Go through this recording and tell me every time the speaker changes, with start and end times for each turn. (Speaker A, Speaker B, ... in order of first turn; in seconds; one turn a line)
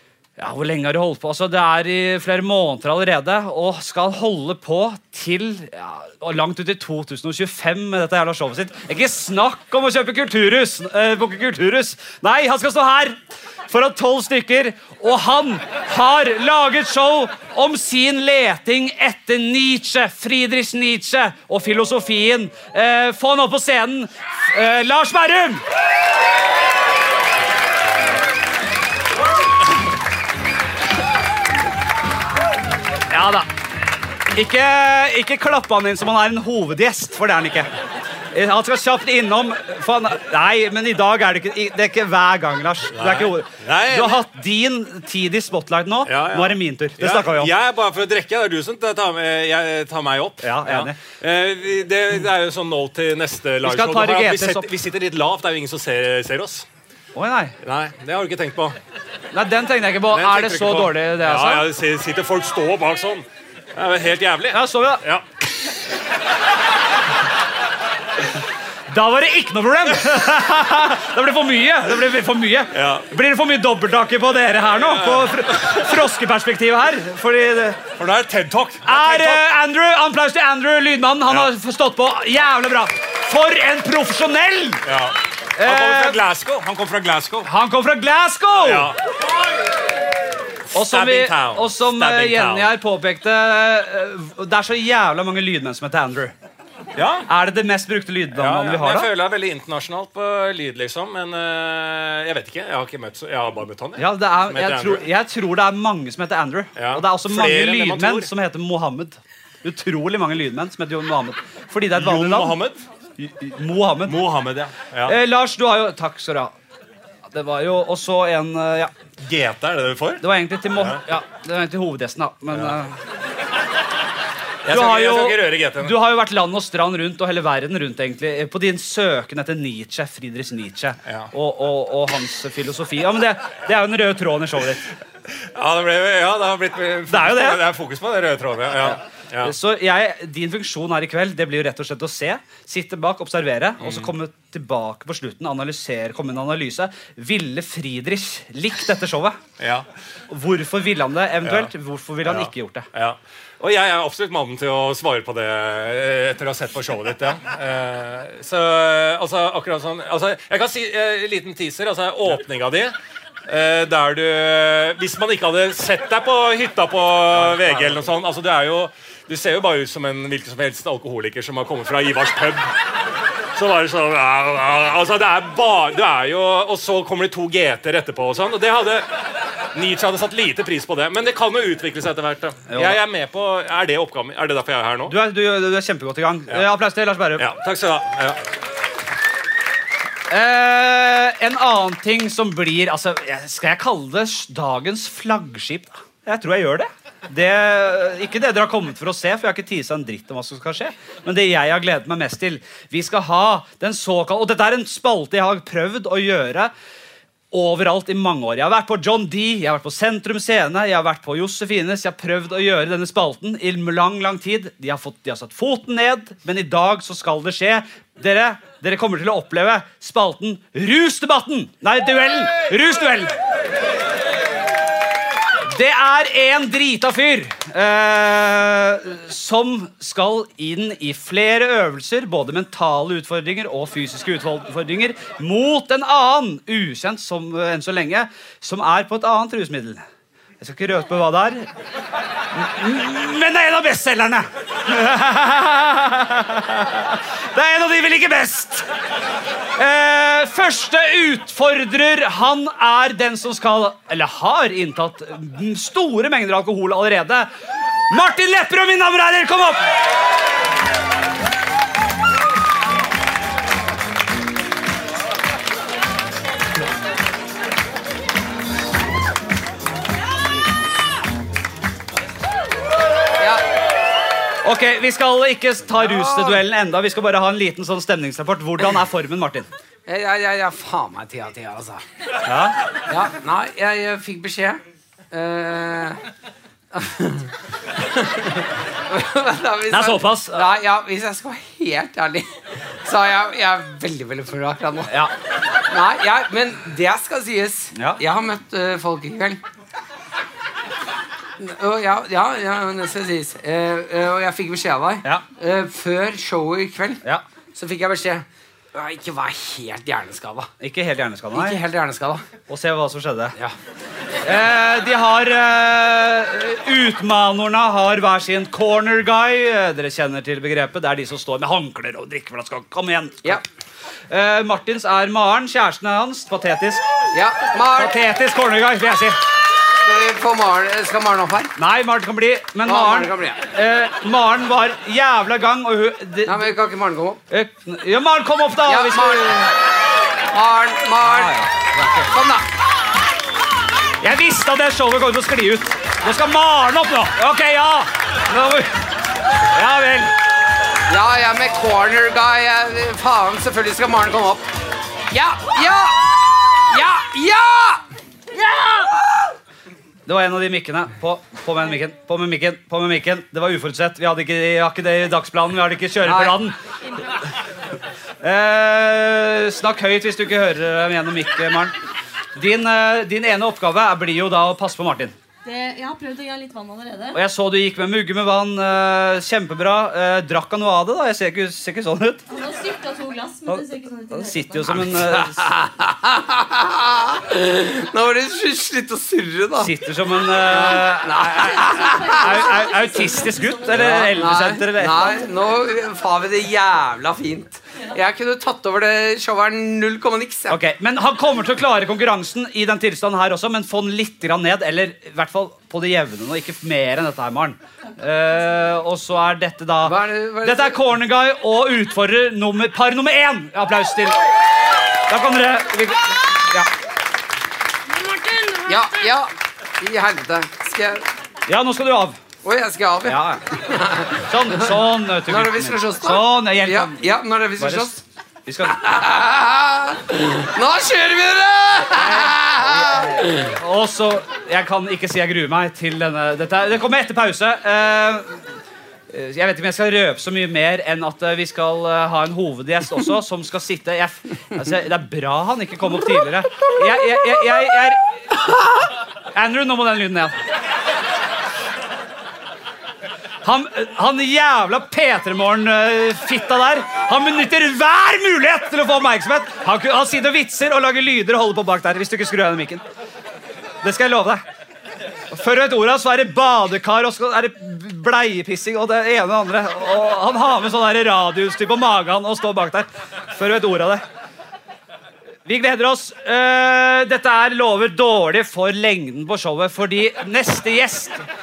Speaker A: 0.4-25.6
Speaker A: 33.1-33.5
Speaker A: 34.4-37.7
Speaker A: 38.3-47.5
Speaker B: 43.0-44.2
Speaker B: 46.1-56.7
Speaker A: 50.4-51.0
Speaker A: 53.6-54.7
Speaker A: 57.1-57.5
Speaker B: 57.6-58.8
Speaker A: 59.3-61.6
Speaker B: 60.1-65.2
Speaker A: 64.5-65.0
Speaker A: 68.9-77.8
Speaker B: 72.7-73.1
Speaker B: 74.7-75.7
Speaker B: 78.0-79.5
Speaker A: 78.8-84.8
Speaker B: 84.9-87.5
Speaker A: 85.6-86.2
Speaker A: 87.4-88.9
Speaker B: 88.6-89.0
Speaker B: 90.7-92.7
Speaker A: 90.7-96.3
Speaker B: 97.0-97.3
Speaker A: 97.3-99.1
Speaker B: 98.3-105.0
Speaker A: 104.0-112.6
Speaker B: 106.8-108.3
Speaker B: 112.0-112.8
Speaker A: 113.2-114.2
Speaker B: 114.1-115.2
Speaker A: 115.0-116.5
Speaker A: 117.3-118.9
Speaker B: 119.2-120.2
Speaker A: 120.2-122.9
Speaker B: 124.7-126.0
Speaker A: 124.7-134.9
Speaker B: 135.6-139.5
Speaker A: 137.1-137.6
Speaker A: 138.9-149.4
Speaker B: 143.8-144.1
Speaker B: 149.6-149.8
Speaker A: 150.3-152.9
Speaker B: 151.4-151.7
Speaker B: 152.3-162.9
Speaker B: 163.5-172.7
Speaker A: 167.4-168.0
Speaker B: 173.6-179.1
Speaker B: 179.7-185.1
Speaker A: 182.7-183.0
Speaker A: 185.1-187.4
Speaker B: 187.4-188.4
Speaker A: 190.3-206.7
Speaker A: 207.5-223.3
Speaker A: 225.7-240.0
Speaker A: 240.6-241.7
Speaker A: 242.5-248.8
Speaker A: 249.8-257.5
Speaker A: 258.1-259.8
Speaker A: 274.6-279.7
Speaker C: 276.0-276.6
Speaker C: 280.1-282.0
Speaker A: 282.5-282.8
Speaker C: 283.1-286.2
Speaker C: 286.9-287.5
Speaker C: 288.0-292.5
Speaker A: 289.9-290.7
Speaker C: 293.0-295.1
Speaker C: 295.9-299.6
Speaker A: 297.9-298.2
Speaker C: 301.6-307.2
Speaker C: 307.7-310.7
Speaker A: 310.8-311.8
Speaker C: 311.5-312.4
Speaker A: 312.7-313.6
Speaker A: 314.4-323.6
Speaker A: 324.3-327.0
Speaker C: 327.3-328.1
Speaker A: 328.0-329.4
Speaker C: 330.0-331.7
Speaker A: 331.8-336.7
Speaker C: 332.9-333.6
Speaker C: 336.4-337.4
Speaker A: 337.5-339.7
Speaker C: 338.9-339.6
Speaker C: 340.5-341.6
Speaker A: 341.2-342.3
Speaker C: 342.3-342.6
Speaker A: 344.2-348.9
Speaker A: 349.7-350.3
Speaker C: 351.1-354.7
Speaker C: 355.3-356.3
Speaker C: 356.9-358.0
Speaker A: 360.3-366.8
Speaker C: 366.2-366.6
Speaker A: 368.4-371.9
Speaker A: 372.6-375.3
Speaker D: 375.6-377.4
Speaker A: 377.3-382.4
Speaker D: 382.5-385.0
Speaker A: 383.7-385.7
Speaker C: 385.1-389.9
Speaker A: 389.8-395.4
Speaker C: 390.6-392.6
Speaker D: 392.1-394.0
Speaker C: 393.9-400.8
Speaker A: 400.7-414.4
Speaker C: 410.0-411.0
Speaker A: 415.3-416.9
Speaker D: 418.1-419.1
Speaker C: 418.9-421.2
Speaker A: 421.7-422.4
Speaker C: 422.6-423.4
Speaker A: 423.2-423.6
Speaker C: 423.9-424.9
Speaker A: 424.4-429.0
Speaker C: 425.5-428.2
Speaker C: 428.9-433.5
Speaker A: 432.2-438.6
Speaker A: 439.3-450.5
Speaker A: 453.6-463.0
Speaker A: 464.0-464.6
Speaker A: 465.5-474.2
Speaker A: 475.7-481.4